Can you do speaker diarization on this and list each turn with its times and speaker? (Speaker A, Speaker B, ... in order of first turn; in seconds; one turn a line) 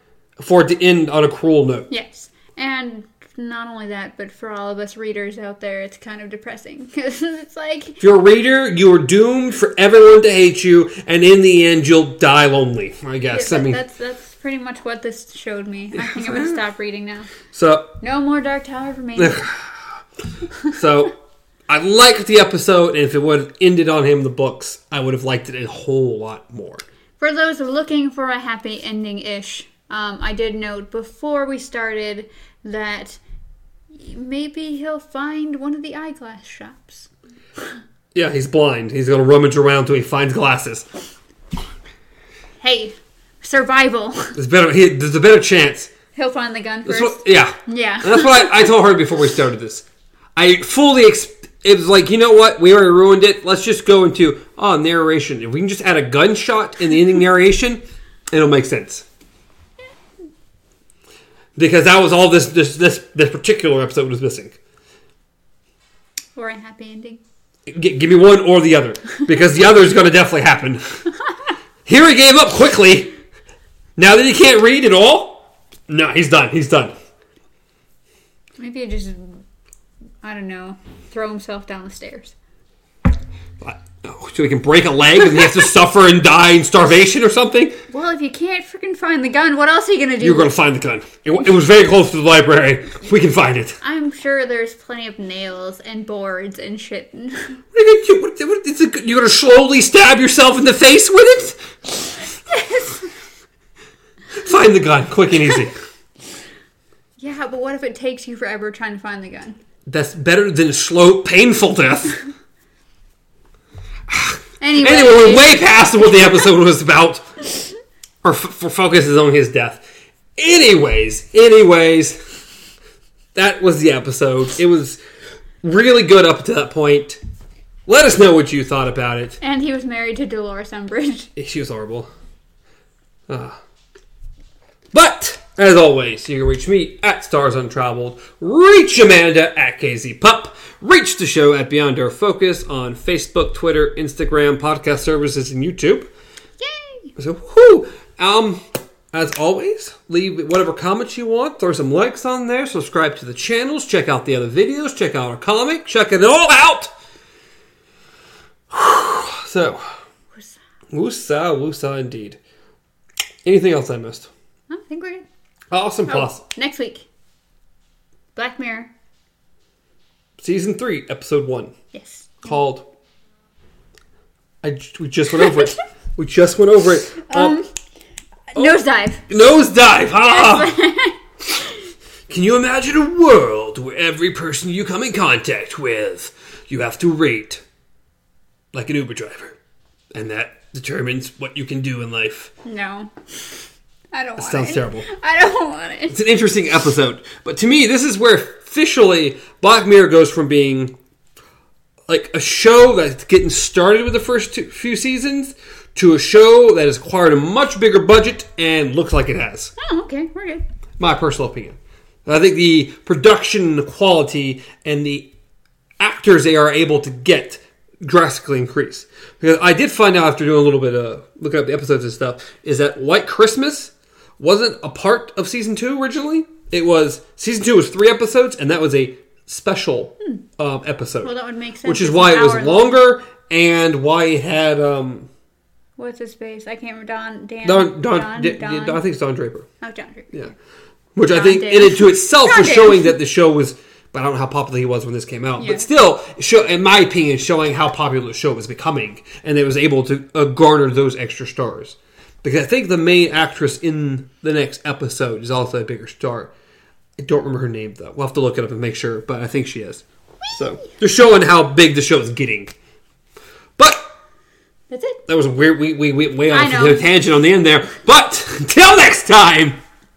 Speaker A: 0.4-1.9
Speaker B: 1.9-8.0
Speaker A: 8.0-13.8
Speaker B: 13.3-17.3
Speaker A: 15.9-16.6
Speaker A: 17.5-17.9
Speaker B: 18.0-19.5
Speaker A: 19.2-19.7
Speaker A: 20.7-21.1
Speaker A: 21.7-26.8
Speaker B: 27.2-33.2
Speaker B: 33.9-37.1
Speaker A: 38.1-40.9
Speaker B: 42.6-44.4
Speaker A: 44.4-45.9
Speaker B: 46.1-48.7
Speaker A: 46.9-49.8
Speaker A: 50.4-59.0
Speaker A: 61.5-64.5
Speaker B: 66.3-67.2
Speaker A: 67.7-71.0
Speaker A: 71.8-73.1
Speaker A: 74.0-76.9
Speaker B: 78.6-79.4
Speaker B: 80.2-82.3
Speaker A: 83.6-87.8
Speaker B: 87.9-90.5
Speaker A: 90.2-93.8
Speaker B: 93.8-97.6
Speaker A: 97.7-101.7
Speaker B: 102.5-103.1
Speaker A: 104.3-105.7
Speaker B: 107.2-109.6
Speaker A: 109.9-112.2
Speaker A: 114.1-117.7
Speaker B: 114.6-115.6
Speaker A: 118.2-119.8
Speaker A: 120.4-122.2
Speaker A: 123.3-125.0
Speaker A: 125.6-127.2
Speaker A: 127.9-129.4
Speaker B: 129.4-131.3
Speaker A: 131.3-132.1
Speaker A: 133.3-133.6
Speaker A: 134.9-146.1
Speaker B: 146.6-147.1
Speaker A: 147.2-148.6
Speaker A: 149.1-156.9
Speaker A: 158.7-159.8
Speaker A: 160.9-162.4
Speaker A: 163.4-164.3
Speaker B: 164.7-165.2
Speaker A: 165.7-166.4
Speaker B: 166.1-167.1
Speaker B: 168.3-168.9
Speaker A: 170.4-171.7
Speaker B: 171.9-172.5
Speaker A: 172.4-172.8
Speaker A: 174.6-177.6
Speaker B: 177.2-177.7
Speaker B: 178.5-179.2
Speaker A: 178.6-180.7
Speaker B: 180.2-181.7
Speaker A: 182.3-187.6
Speaker A: 188.7-189.6
Speaker A: 190.1-192.5
Speaker B: 192.6-193.1
Speaker B: 194.1-196.2
Speaker A: 194.4-195.0
Speaker A: 196.1-200.9
Speaker A: 202.1-209.7
Speaker B: 209.8-210.6
Speaker A: 211.0-215.3
Speaker A: 216.0-231.3
Speaker B: 231.2-233.0
Speaker A: 231.8-235.3
Speaker B: 236.0-239.0
Speaker A: 237.6-239.7
Speaker B: 239.8-240.3
Speaker A: 241.2-256.5
Speaker B: 241.3-243.2
Speaker B: 245.6-245.9
Speaker A: 257.2-262.7
Speaker B: 260.5-260.9
Speaker A: 263.8-264.1
Speaker B: 264.9-265.2
Speaker A: 265.3-269.8
Speaker B: 266.5-267.1